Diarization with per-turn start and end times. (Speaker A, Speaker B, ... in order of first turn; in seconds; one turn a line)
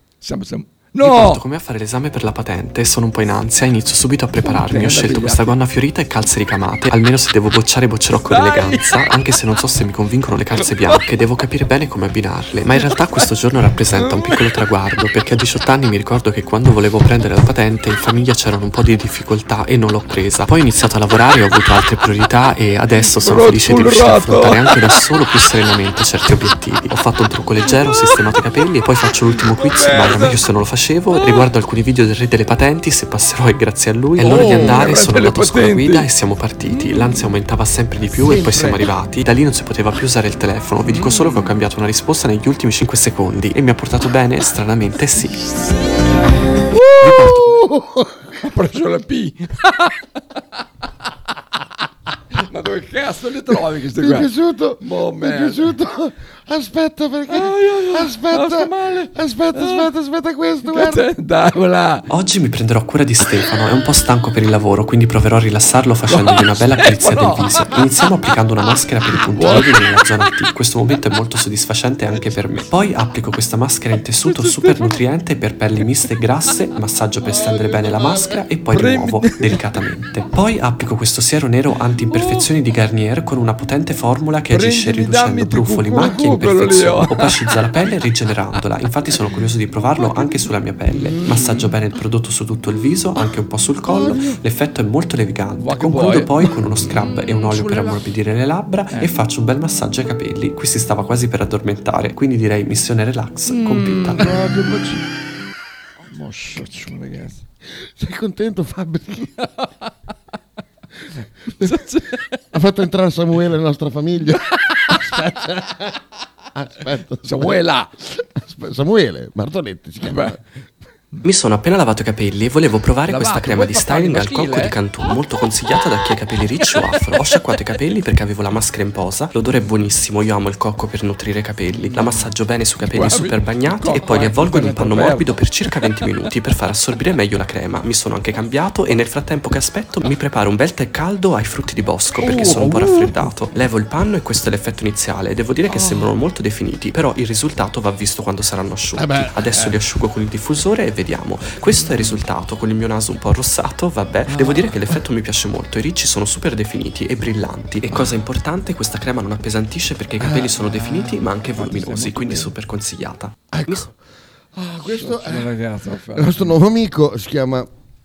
Speaker A: 0.2-1.4
Speaker B: 1.0-45.4
Speaker A: 4.4-5.6
Speaker A: 8.2-9.0
Speaker A: 10.6-11.0
Speaker A: 14.0-14.3
Speaker A: 22.9-25.1
Speaker A: 27.6-28.2
Speaker A: 29.5-30.4
Speaker A: 31.1-31.5
Speaker A: 34.2-36.1
Speaker A: 36.7-37.2
Speaker A: 38.2-38.9
Speaker A: 40.9-41.5
Speaker A: 46.9-47.4
Speaker C: 47.0-48.2
Speaker A: 48.4-50.0
Speaker A: 52.3-54.3
Speaker C: 54.0-61.0
Speaker A: 54.8-55.7
Speaker A: 57.3-59.9
Speaker A: 60.6-62.1
Speaker B: 62.1-104.4
Speaker A: 66.1-67.8
Speaker A: 69.2-70.0
Speaker A: 74.2-75.0
Speaker A: 78.7-79.6
Speaker A: 82.1-82.5
Speaker A: 84.5-87.4
Speaker A: 90.0-91.7
Speaker C: 93.9-94.4
Speaker A: 95.6-96.3
Speaker A: 97.0-98.1
Speaker A: 98.9-99.2
Speaker A: 103.5-105.0
Speaker A: 106.0-107.4
Speaker C: 108.0-109.3
Speaker A: 109.4-109.7
Speaker A: 111.6-112.4
Speaker C: 112.5-116.0
Speaker A: 114.5-115.0
Speaker C: 116.5-120.4
Speaker A: 117.2-117.9
Speaker A: 120.0-120.4
Speaker B: 121.2-163.8
Speaker A: 123.0-124.8
Speaker A: 126.7-127.4
Speaker A: 131.9-132.3
Speaker A: 132.9-136.1
Speaker A: 142.2-143.3
Speaker A: 145.7-146.1
Speaker C: 149.0-149.4
Speaker A: 149.5-149.8
Speaker A: 151.7-152.2
Speaker A: 154.3-154.8
Speaker A: 160.2-162.5
Speaker C: 163.5-163.9
Speaker C: 164.5-165.5
Speaker A: 164.9-166.6
Speaker C: 166.1-167.7